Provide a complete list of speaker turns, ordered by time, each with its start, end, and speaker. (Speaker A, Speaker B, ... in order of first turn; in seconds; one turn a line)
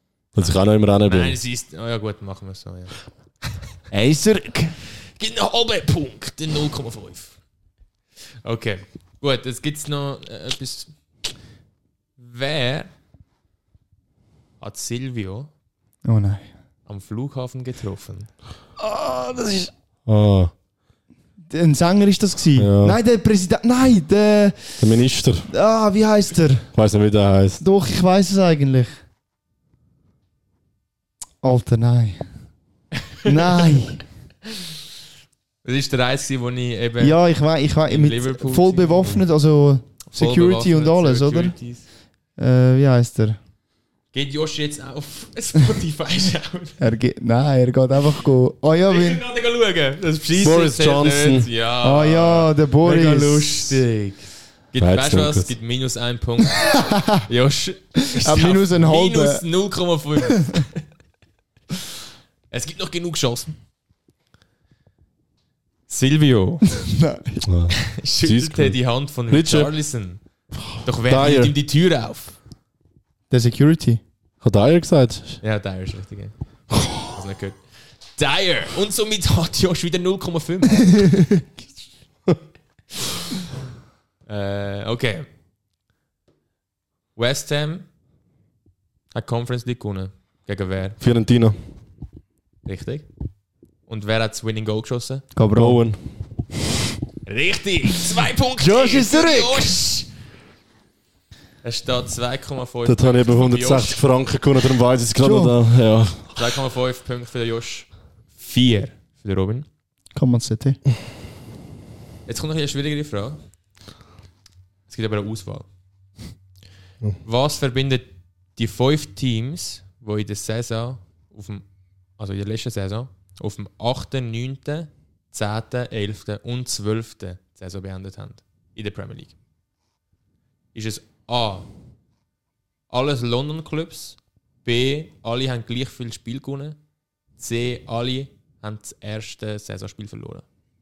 Speaker A: 0.3-1.4
Speaker B: 1.1-2.9
Speaker C: 3.9-4.8
Speaker B: 5.1-7.4
Speaker B: 8.4-10.9
Speaker B: 12.2-12.9
Speaker B: 14.6-15.5
Speaker C: 16.1-16.5
Speaker B: 16.9-18.3
Speaker C: 18.8-19.7
Speaker A: 20.1-20.5
Speaker C: 21.5-24.9
Speaker A: 22.6-23.0
Speaker A: 24.8-25.5
Speaker C: 25.5-26.7
Speaker A: 26.7-27.6
Speaker C: 27.6-29.0
Speaker C: 31.4-32.3
Speaker C: 33.2-34.0
Speaker B: 35.6-37.2
Speaker C: 37.0-41.5
Speaker B: 37.9-39.2
Speaker B: 40.0-41.8
Speaker C: 42.4-43.4
Speaker B: 44.1-46.8
Speaker C: 46.8-49.2
Speaker B: 48.9-60.8
Speaker A: 50.3-51.5
Speaker C: 51.8-53.8
Speaker A: 54.8-55.5
Speaker C: 56.5-57.3
Speaker C: 58.0-59.4
Speaker C: 60.4-60.6
Speaker B: 62.5-63.5
Speaker B: 65.9-66.7
Speaker C: 66.7-67.5
Speaker A: 67.4-69.7
Speaker B: 67.9-70.2
Speaker B: 70.8-72.4
Speaker A: 71.0-71.5
Speaker C: 73.3-74.0
Speaker A: 74.4-75.4
Speaker B: 75.4-76.3
Speaker A: 76.7-77.0
Speaker B: 77.0-81.1
Speaker C: 80.9-81.2
Speaker B: 84.3-85.3
Speaker B: 87.1-87.9
Speaker B: 89.1-91.0
Speaker A: 91.0-91.5
Speaker B: 92.6-93.1
Speaker B: 93.9-95.3
Speaker C: 95.3-95.8
Speaker A: 95.5-96.0
Speaker B: 97.3-100.1
Speaker C: 98.6-99.7
Speaker B: 101.6-104.0
Speaker A: 102.9-106.4
Speaker C: 105.2-105.5
Speaker B: 106.3-109.7
Speaker C: 110.1-110.8
Speaker B: 112.3-113.4
Speaker B: 114.9-115.7
Speaker B: 117.2-121.6
Speaker B: 122.2-129.3
Speaker B: 130.7-131.7
Speaker B: 132.9-136.8
Speaker B: 137.4-140.4